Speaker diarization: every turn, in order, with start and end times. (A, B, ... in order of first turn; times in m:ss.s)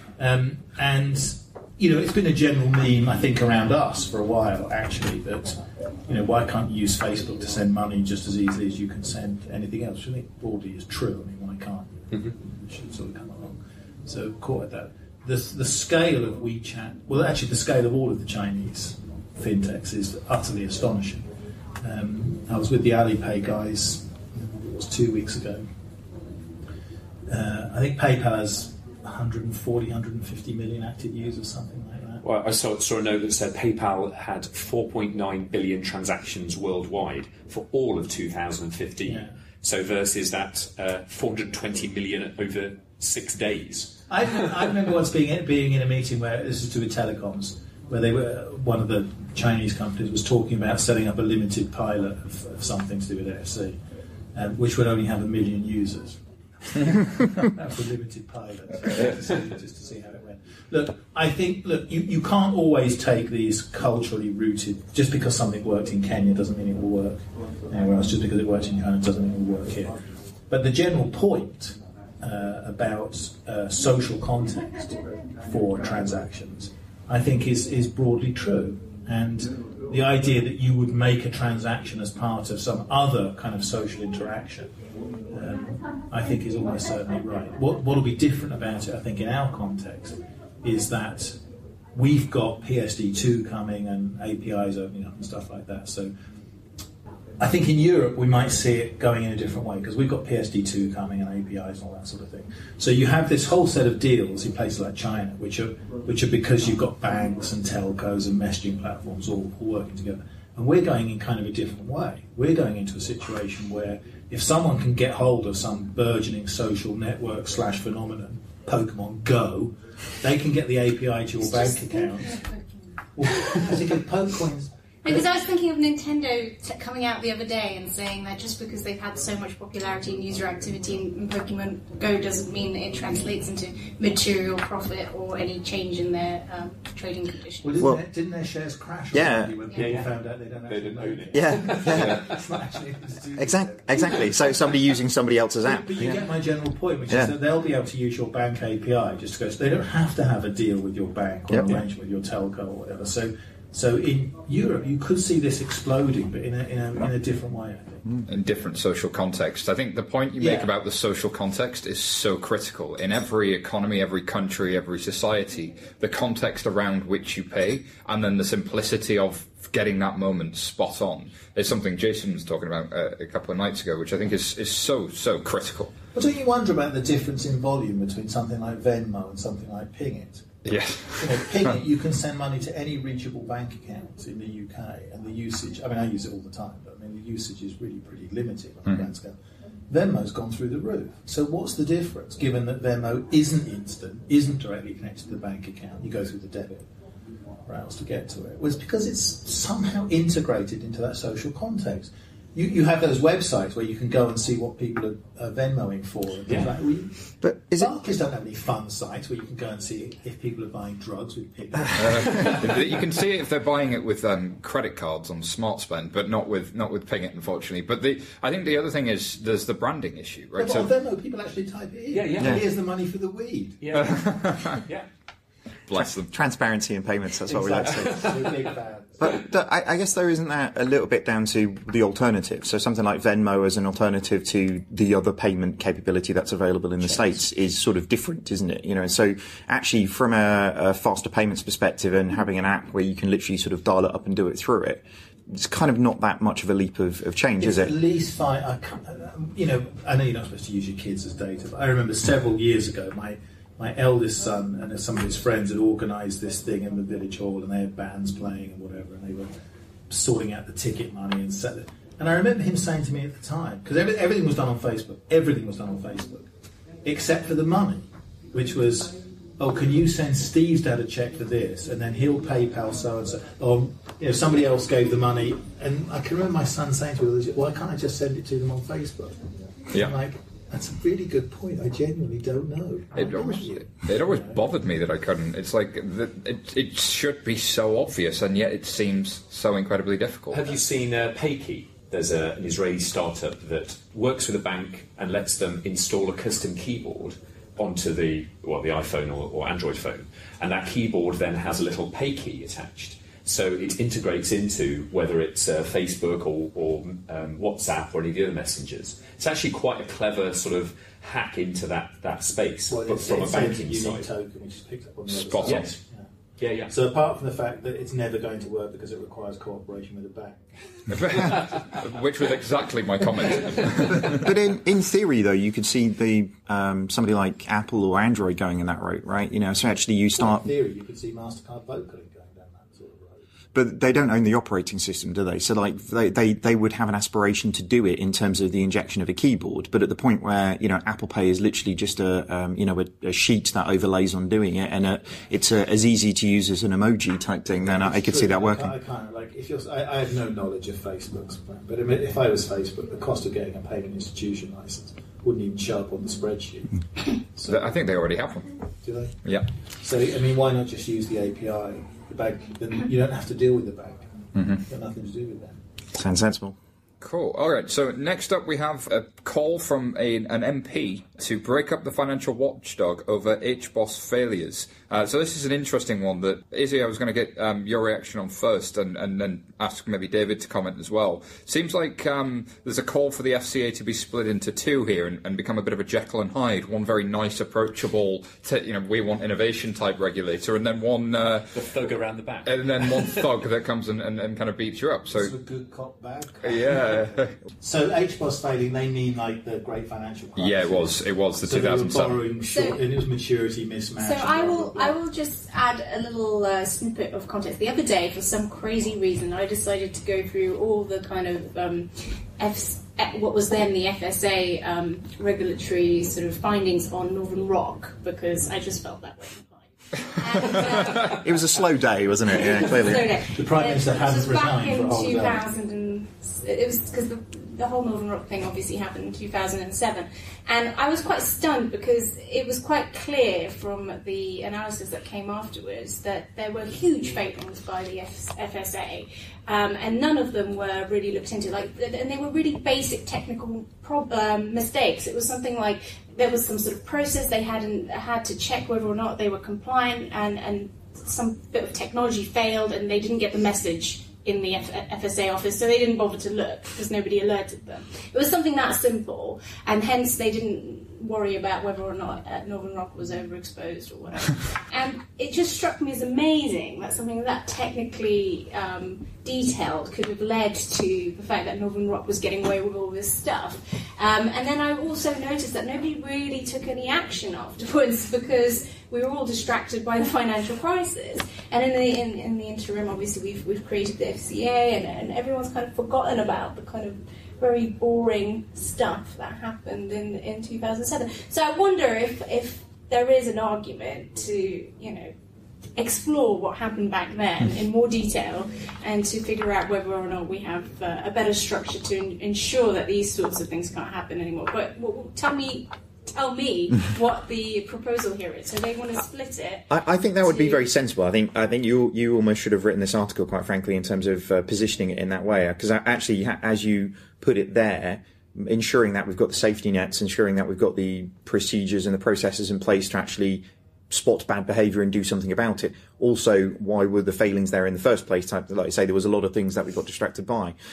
0:00.2-0:21.3 A
0:21.8-0:25.7 A
0:27.3-0:32.2 A
0:32.2-0:44.0 B
0:39.0-0:39.3 A
0:44.1-0:53.8 A
0:54.4-1:10.0 A
1:10.5-1:24.7 A
1:25.3-1:31.4 A
1:31.9-1:36.1 A
1:37.4-2:02.4 A
2:01.5-2:02.8 C
2:03.2-2:05.2 A
2:05.0-2:17.7 C
2:17.6-2:24.3 A
2:17.8-2:18.0 D
2:19.1-2:19.8 D
2:19.7-2:22.4 B
2:21.3-2:22.3 D
2:23.4-2:26.2 D
2:25.6-2:38.2 A
2:27.1-2:27.4 D
2:31.5-2:31.8 D
2:38.2-2:55.9 E
2:40.4-2:40.7 A
2:56.1-3:00.5 A
3:00.6-3:01.7 E
3:01.2-3:09.4 A
3:09.9-3:16.9 A
3:17.6-3:27.1 A
3:27.4-3:28.0 D
3:27.8-3:33.0 A
3:32.0-3:40.9 E
3:40.6-3:43.8 A
3:42.1-3:42.6 B
3:43.8-3:45.1 B
3:43.9-3:44.8 E
3:45.9-3:46.3 E
3:45.9-3:48.4 D
3:47.5-3:49.4 A
3:47.7-3:48.6 B
3:49.2-4:07.9 D
4:07.6-4:19.5 A
4:20.1-4:26.5 A
4:27.0-4:44.6 A
4:43.2-4:50.8 E
4:50.5-5:14.3 B
5:12.9-5:16.3 A
5:15.3-5:15.9 E
5:16.6-5:16.9 B
5:16.9-5:21.6 A
5:21.1-5:24.5 E
5:24.2-5:30.7 D
5:30.3-5:33.4 A
5:33.7-5:48.9 D
5:47.8-5:57.9 A
5:57.6-5:58.8 E
5:59.0-5:59.4 A
6:00.0-6:05.8 A
6:04.6-6:04.8 E
6:06.2-6:06.8 D
6:07.2-6:31.7 E
6:31.7-6:33.4 B
6:32.7-6:35.5 E
6:35.3-6:45.2 A
6:36.6-6:37.6 E
6:40.6-6:42.4 E
6:42.7-6:43.0 C
6:44.2-7:01.4 C
7:01.2-7:03.4 D
7:02.5-8:15.3 C
7:03.5-7:05.6 A
8:16.0-8:29.9 C
8:29.9-8:50.8 D
8:30.4-8:30.9 C